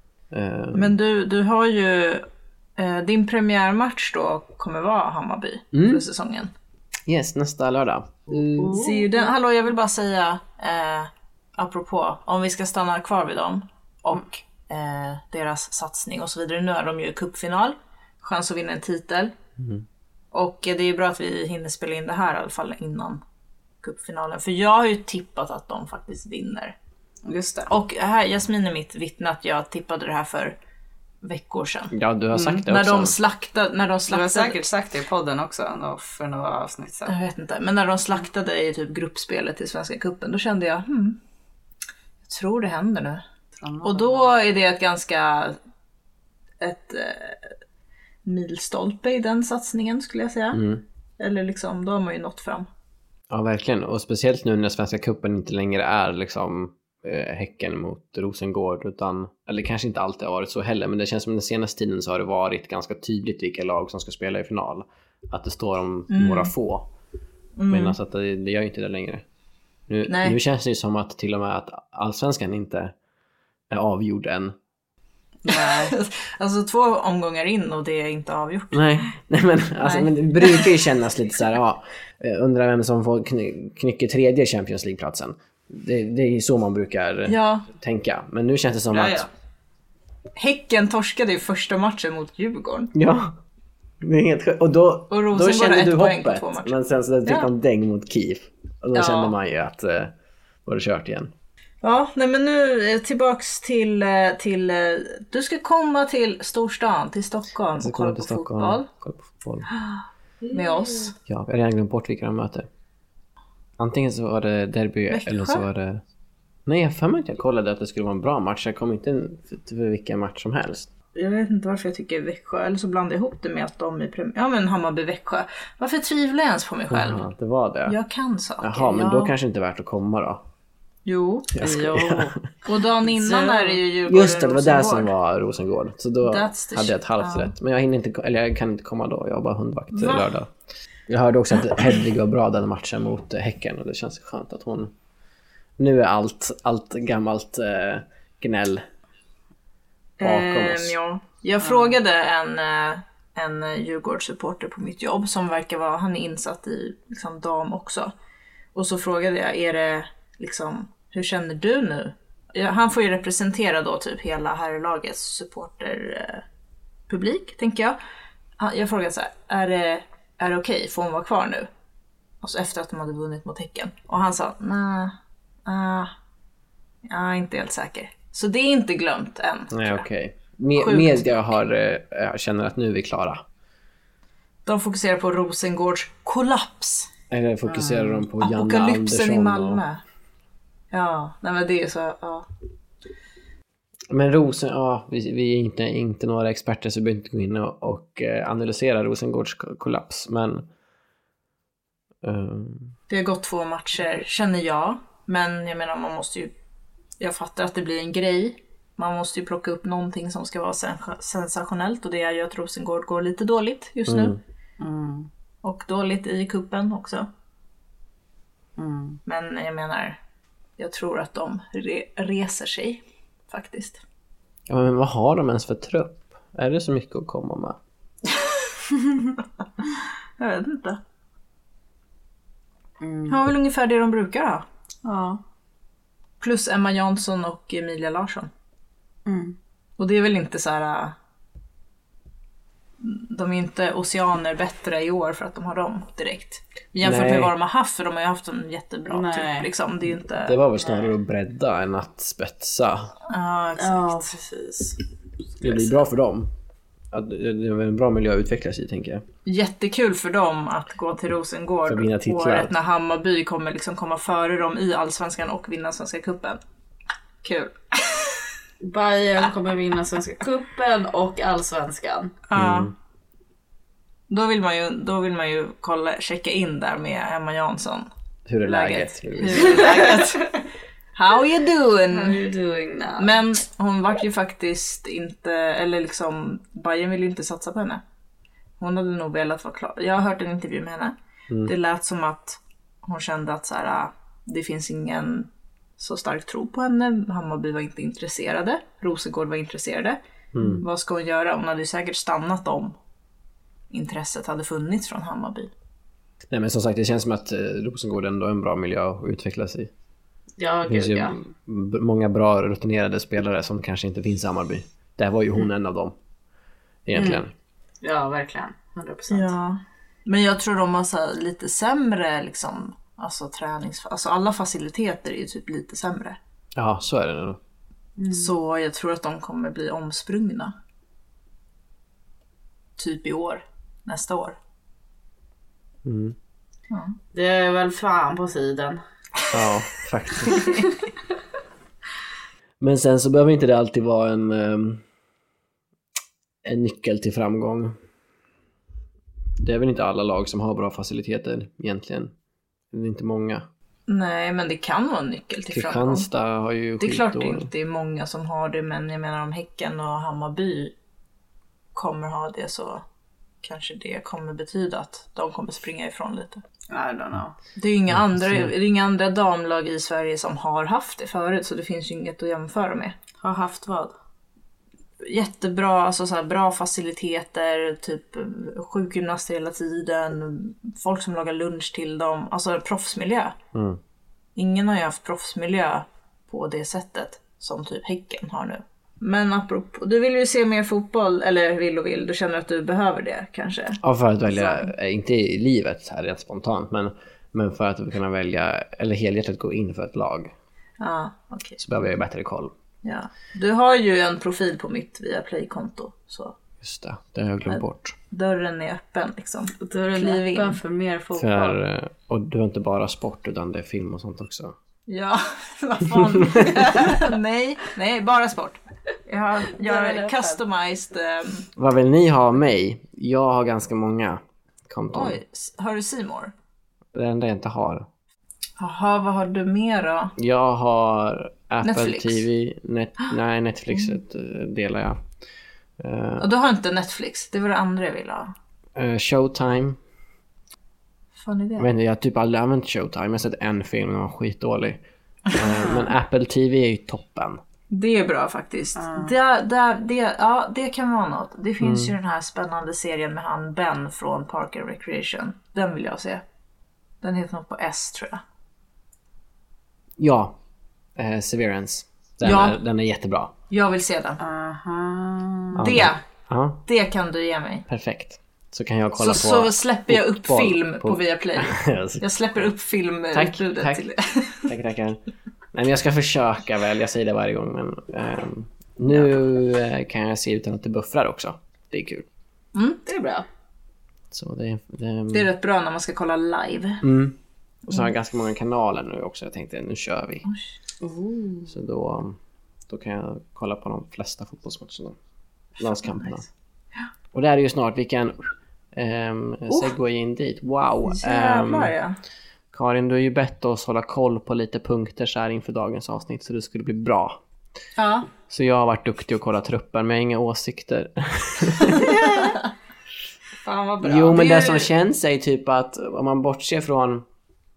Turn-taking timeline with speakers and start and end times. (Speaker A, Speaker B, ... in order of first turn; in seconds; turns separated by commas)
Speaker A: 0.3-0.9, Speaker B: 0.7-2.2, Speaker B: 2.8-6.5, Speaker A: 5.7-6.0, Speaker A: 7.1-8.8, Speaker B: 8.5-19.3, Speaker C: 8.6-9.3, Speaker A: 19.6-19.8, Speaker B: 20.3-23.2, Speaker B: 23.8-26.8, Speaker C: 27.2-27.7, Speaker B: 27.7-30.6, Speaker B: 31.2-31.9, Speaker A: 31.9-33.2, Speaker C: 32.3-32.6, Speaker B: 32.7-34.6, Speaker C: 34.1-37.1, Speaker B: 37.0-41.2, Speaker B: 42.2-43.2, Speaker C: 43.6-44.3, Speaker B: 43.8-45.6, Speaker B: 46.6-47.5, Speaker B: 48.2-50.7, Speaker A: 50.5-50.8, Speaker B: 51.2-52.7, Speaker A: 53.3-66.9, Speaker B: 66.1-66.5, Speaker B: 67.6-68.0, Speaker A: 67.7-69.2, Speaker A: 69.9-72.9, Speaker B: 70.1-70.4, Speaker A: 73.7-74.5, Speaker C: 75.4-75.9, Speaker B: 75.5-79.0, Speaker A: 78.7-89.3, Speaker B: 79.8-80.8, Speaker B: 87.3-87.7, Speaker C: 88.9-89.3, Speaker B: 90.3-92.9, Speaker A: 92.9-93.4, Speaker A: 94.0-100.1, Speaker B: 95.1-97.5, Speaker B: 98.9-99.3, Speaker A: 100.7-101.3, Speaker B: 101.8-108.9, Speaker A: 107.8-109.7, Speaker C: 110.4-111.1, Speaker B: 110.5-111.1, Speaker A: 111.2-112.7, Speaker A: 113.8-116.0, Speaker B: 115.1-115.6, Speaker A: 116.7-120.9, Speaker B: 121.1-127.2, Speaker A: 126.9-128.0, Speaker B: 127.8-129.3, Speaker A: 128.6-130.4, Speaker B: 131.1-131.5, Speaker A: 131.5-132.4, Speaker C: 131.6-132.4, Speaker B: 132.7-135.1, Speaker C: 133.0-133.8, Speaker A: 134.1-140.5, Speaker B: 136.2-137.5, Speaker B: 139.9-140.3, Speaker A: 141.1-144.9, Speaker A: 145.8-148.8, Speaker B: 150.2-158.1, Speaker A: 150.2-150.9, Speaker B: 158.7-166.4, Speaker B: 167.1-168.0, Speaker B: 168.6-171.7, Speaker B: 172.4-175.1, Speaker B: 175.7-176.1, Speaker B: 177.1-180.0, Speaker A: 179.7-183.4, Speaker B: 180.8-181.3, Speaker B: 184.7-187.1, Speaker A: 187.3-189.8, Speaker C: 187.7-188.2, Speaker B: 188.4-190.0, Speaker B: 190.9-192.5, Speaker A: 194.1-200.7, Speaker A: 202.2-202.9, Speaker B: 203.1-206.5, Speaker B: 207.2-214.4, Speaker A: 214.1-214.4, Speaker C: 214.8-215.3, Speaker B: 215.6-217.3, Speaker C: 218.8-219.2, Speaker B: 219.2-220.2, Speaker B: 220.8-224.0, Speaker A: 224.7-227.8, Speaker B: 230.4-231.0, Speaker C: 233.0-233.3, Speaker B: 233.3-234.6, Speaker C: 235.0-235.4, Speaker B: 236.4-238.5, Speaker C: 239.2-239.6, Speaker B: 240.0-241.1, Speaker B: 243.0-250.6, Speaker A: 247.0-247.5, Speaker C: 249.1-249.7, Speaker A: 250.3-253.1, Speaker C: 250.8-251.1, Speaker B: 253.3-254.3, Speaker C: 253.8-255.0, Speaker A: 255.6-256.5, Speaker A: 257.1-259.2, Speaker B: 259.4-266.6, Speaker A: 261.9-262.7, Speaker B: 267.4-268.4, Speaker C: 268.8-272.3, Speaker B: 272.5-272.9, Speaker A: 272.6-272.9, Speaker B: 274.3-278.1, Speaker A: 278.5-279.9, Speaker B: 278.6-280.6, Speaker C: 279.7-280.2, Speaker B: 281.1-282.4, Speaker C: 282.1-283.3, Speaker B: 283.2-288.0, Speaker B: 288.8-300.2, Speaker A: 300.5-300.8, Speaker B: 300.8-302.9, Speaker B: 303.9-305.7, Speaker A: 306.5-309.9, Speaker C: 310.6-311.4, Speaker A: 310.8-316.1, Speaker A: 317.1-317.5, Speaker C: 317.1-317.4, Speaker C: 318.0-319.5, Speaker B: 319.3-326.4, Speaker A: 326.7-327.6, Speaker C: 328.2-328.5, Speaker B: 328.3-330.7, Speaker B: 333.0-334.6, Speaker A: 336.0-336.4, Speaker B: 336.9-337.1, Speaker C: 337.3-339.0, Speaker A: 339.5-340.7, Speaker B: 340.4-340.9, Speaker A: 342.8-345.0, Speaker A: 346.6-348.0, Speaker A: 349.6-352.3, Speaker A: 352.9-353.6, Speaker B: 354.1-356.3, Speaker A: 355.7-357.7, Speaker B: 357.0-360.9, Speaker B: 361.9-363.0, Speaker B: 363.6-366.6, Speaker C: 366.9-367.5, Speaker B: 367.8-373.1, Speaker A: 368.1-368.7, Speaker C: 373.4-374.1, Speaker B: 375.2-383.6, Speaker A: 383.7-384.0, Speaker B: 384.6-394.0, Speaker A: 394.0-400.5, Speaker B: 394.5-394.9, Speaker B: 401.0-401.8, Speaker A: 401.8-402.7, Speaker B: 403.0-406.6, Speaker A: 406.8-408.2, Speaker B: 407.7-410.8, Speaker C: 409.8-411.8, Speaker A: 411.3-414.7, Speaker B: 415.1-421.7, Speaker A: 416.2-416.8, Speaker C: 419.7-420.6, Speaker A: 421.8-425.4, Speaker B: 425.1-426.5, Speaker A: 427.1-428.1, Speaker B: 428.8-430.3, Speaker A: 430.4-435.2, Speaker B: 431.8-432.4, Speaker A: 436.0-436.5, Speaker B: 436.4-438.5, Speaker A: 438.9-440.0, Speaker B: 441.4-441.9, Speaker A: 441.8-447.6, Speaker B: 447.9-456.4, Speaker C: 449.0-449.3, Speaker A: 451.8-452.1, Speaker B: 457.2-458.4, Speaker A: 460.2-460.6, Speaker A: 461.1-463.5, Speaker B: 462.4-462.8, Speaker B: 463.7-464.4, Speaker C: 464.4-465.8, Speaker A: 465.7-466.8, Speaker B: 465.8-466.2, Speaker B: 466.9-467.9, Speaker A: 467.9-472.7, Speaker B: 469.2-474.7, Speaker A: 473.3-474.1, Speaker A: 474.6-475.2, Speaker A: 475.7-482.2, Speaker B: 482.7-483.0, Speaker C: 483.1-483.4, Speaker A: 484.3-485.5, Speaker B: 485.3-487.0, Speaker A: 487.0-490.4, Speaker C: 491.0-491.7, Speaker A: 491.7-492.4, Speaker A: 492.9-495.2, Speaker A: 495.8-496.4, Speaker A: 497.3-501.9, Speaker B: 501.1-502.2, Speaker A: 502.7-507.4, Speaker B: 507.9-508.3, Speaker A: 508.5-512.5, Speaker B: 512.0-512.6, Speaker B: 513.6-514.9, Speaker A: 514.0-517.2